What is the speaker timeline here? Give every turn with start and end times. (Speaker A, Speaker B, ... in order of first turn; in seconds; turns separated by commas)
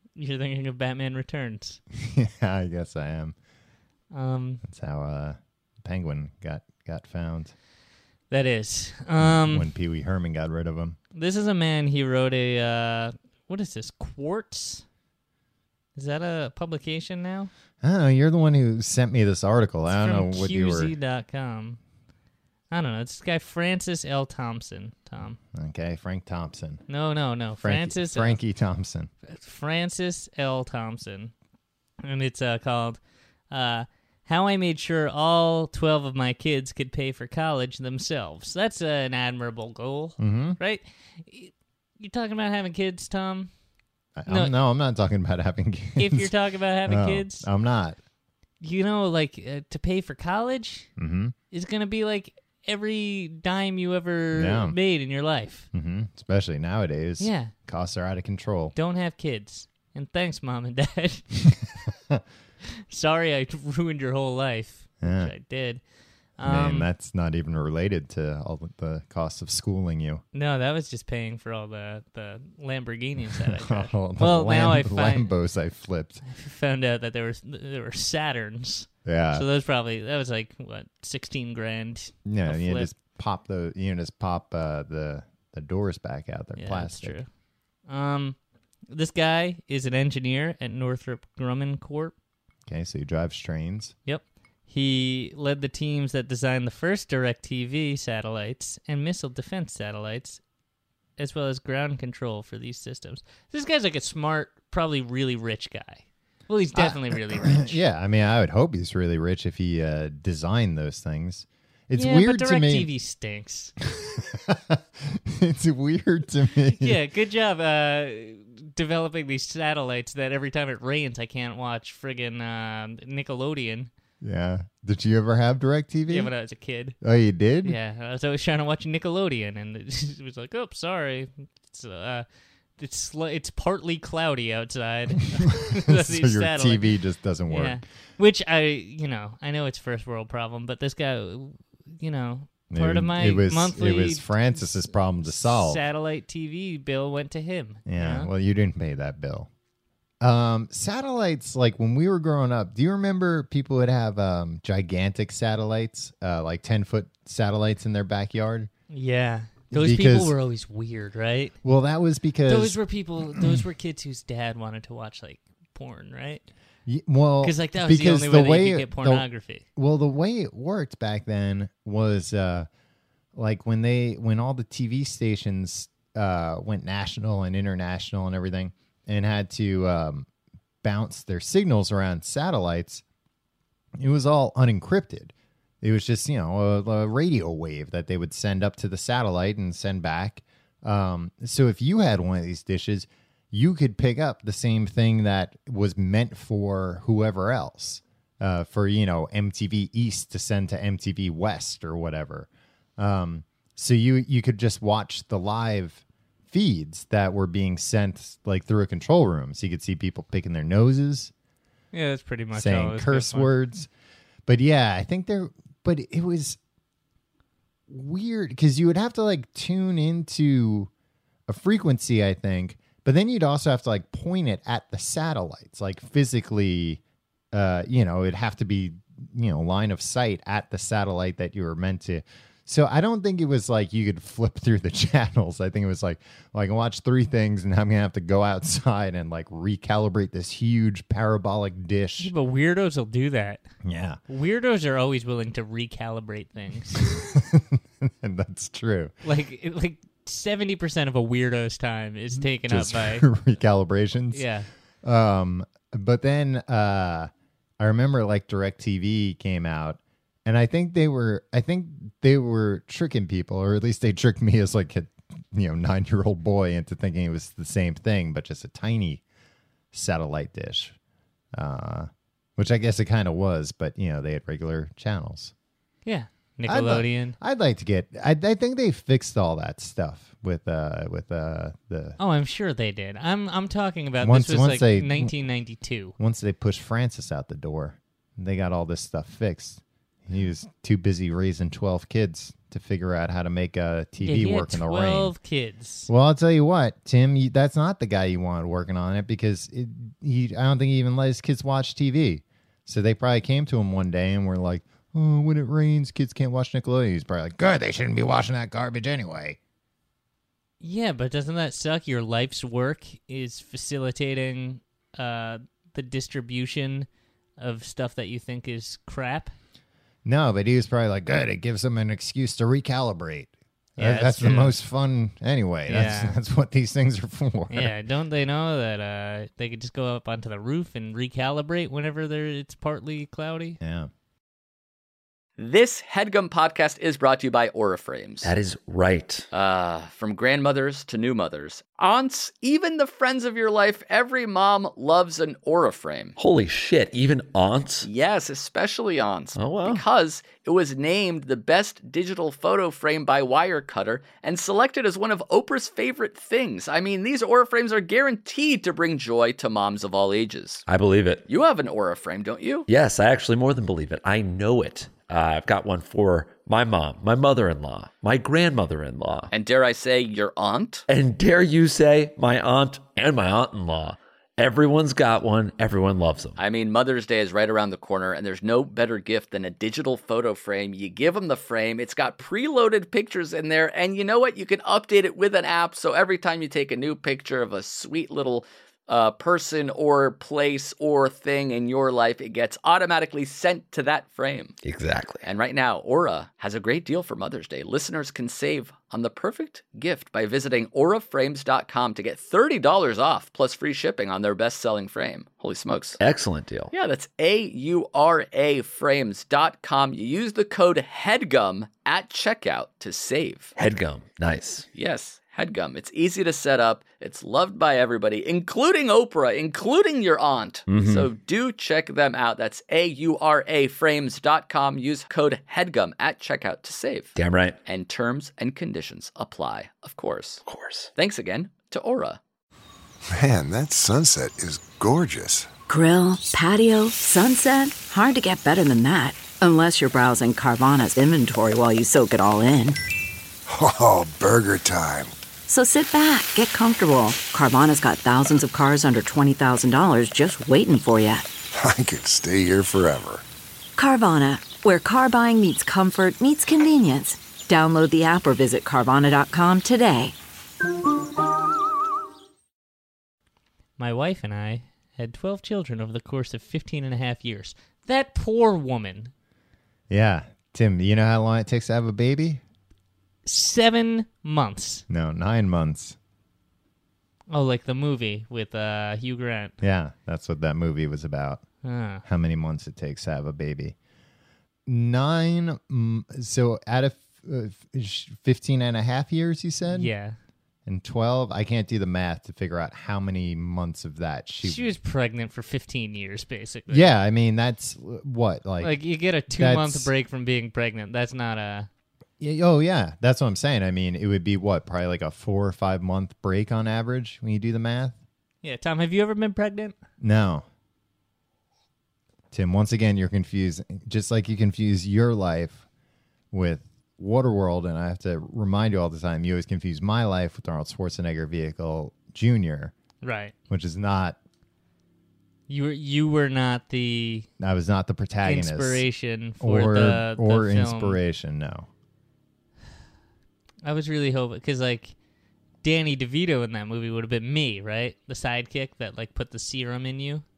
Speaker A: 0.1-1.8, Speaker B: 1.9-3.3, Speaker A: 4.1-4.6, Speaker B: 4.6-7.5, Speaker A: 8.3-9.7, Speaker B: 9.2-11.0, Speaker A: 11.1-14.8, Speaker A: 15.9-17.5, Speaker B: 17.8-20.9, Speaker A: 19.9-21.8, Speaker A: 22.7-25.4, Speaker B: 25.5-26.8, Speaker A: 26.9-28.4, Speaker B: 27.5-29.1, Speaker A: 29.3-31.3, Speaker A: 32.0-33.0, Speaker A: 33.5-43.5, Speaker B: 40.2-40.6, Speaker B: 44.2-46.3, Speaker A: 44.3-44.5, Speaker A: 46.0-47.5, Speaker B: 46.9-48.0, Speaker A: 48.6-50.9, Speaker B: 51.0-51.3, Speaker A: 51.5-55.7, Speaker B: 54.3-54.8, Speaker B: 55.7-58.7, Speaker A: 57.2-57.5, Speaker A: 58.7-61.3, Speaker A: 62.9-65.8, Speaker B: 65.0-65.3, Speaker A: 66.4-66.9, Speaker B: 66.4-70.2, Speaker A: 70.3-75.3, Speaker B: 73.5-76.2, Speaker A: 76.2-82.9, Speaker B: 79.0-79.5, Speaker B: 82.2-87.2, Speaker A: 86.6-87.3, Speaker A: 87.9-88.4, Speaker A: 88.9-92.1, Speaker B: 92.7-93.9, Speaker A: 94.0-100.4, Speaker A: 101.2-107.8, Speaker B: 106.7-112.9, Speaker A: 111.9-113.7, Speaker B: 113.9-117.0, Speaker A: 116.7-123.9, Speaker B: 124.2-126.3, Speaker A: 126.1-127.0, Speaker B: 127.0-127.8, Speaker A: 127.6-132.2, Speaker A: 132.8-136.9, Speaker B: 135.5-137.8, Speaker A: 137.5-148.3, Speaker B: 142.7-145.8, Speaker B: 147.9-149.5, Speaker B: 150.2-158.7, Speaker A: 158.9-161.5, Speaker B: 159.7-160.3, Speaker B: 161.6-162.8, Speaker A: 162.5-166.4, Speaker B: 163.3-163.6, Speaker B: 166.8-172.7, Speaker A: 167.4-169.6, Speaker B: 173.3-180.3, Speaker B: 180.8-183.0, Speaker B: 183.9-211.3, Speaker A: 211.9-213.5, Speaker B: 212.5-213.9, Speaker B: 214.4-216.6, Speaker B: 217.9-220.9, Speaker B: 221.5-227.0, Speaker B: 227.5-242.3, Speaker A: 242.2-243.6, Speaker B: 243.8-244.2, Speaker A: 244.3-247.1, Speaker B: 247.0-249.1, Speaker A: 249.2-253.3, Speaker B: 252.3-254.5, Speaker A: 254.3-254.7, Speaker B: 255.0-269.2, Speaker B: 269.9-270.9, Speaker B: 271.5-275.5, Speaker A: 276.0-277.4, Speaker B: 276.6-282.2, Speaker A: 282.2-286.1, Speaker B: 284.2-285.3, Speaker B: 286.2-295.3, Speaker A: 294.2-296.1, Speaker B: 296.1-309.6, Speaker A: 310.8-317.1, Speaker A: 317.6-319.5, Speaker B: 320.2-327.9, Speaker A: 324.0-324.8, Speaker A: 325.9-326.4, Speaker A: 327.7-333.8, Speaker B: 333.8-334.1, Speaker C: 335.6-338.5, Speaker D: 338.4-339.5, Speaker C: 339.5-346.3, Speaker D: 346.4-348.1, Speaker C: 348.0-360.8, Speaker D: 349.5-350.0, Speaker D: 360.9-361.4, Speaker C: 361.5-362.9, Speaker D: 362.9-369.5, Speaker C: 369.5-371.0, Speaker D: 371.1-376.6, Speaker C: 376.6-394.7, Speaker D: 394.8-395.5, Speaker C: 395.4-406.2, Speaker D: 406.2-406.9, Speaker C: 406.9-413.7, Speaker D: 413.8-414.9, Speaker C: 414.9-427.3, Speaker D: 420.9-421.3, Speaker D: 427.4-427.8, Speaker C: 427.9-430.6, Speaker D: 430.6-431.1, Speaker C: 431.1-432.4, Speaker E: 433.3-435.7, Speaker F: 435.9-443.0, Speaker E: 443.7-445.3, Speaker F: 445.7-451.4, Speaker E: 451.7-453.4, Speaker F: 454.0-460.3, Speaker A: 464.0-469.3, Speaker B: 470.1-472.6, Speaker A: 473.4-475.0, Speaker B: 475.1-476.2, Speaker A: 477.5-479.8, Speaker B: 479.8-481.6, Speaker A: 481.8-482.2, Speaker B: 482.2-483.9, Speaker B: 484.9-490.1, Speaker A: 489.9-490.4, Speaker B: 490.9-494.9, Speaker A: 494.6-497.1, Speaker B: 496.9-500.1, Speaker A: 498.8-501.9, Speaker B: 502.4-508.2, Speaker A: 508.6-509.9, Speaker B: 510.2-510.6, Speaker B: 512.5-515.8, Speaker B: 516.5-522.9, Speaker A: 523.2-523.5, Speaker B: 523.7-524.4, Speaker A: 525.7-527.5, Speaker B: 527.6-529.0, Speaker A: 528.4-531.2, Speaker B: 529.6-531.9, Speaker A: 533.8-535.1, Speaker A: 535.8-540.4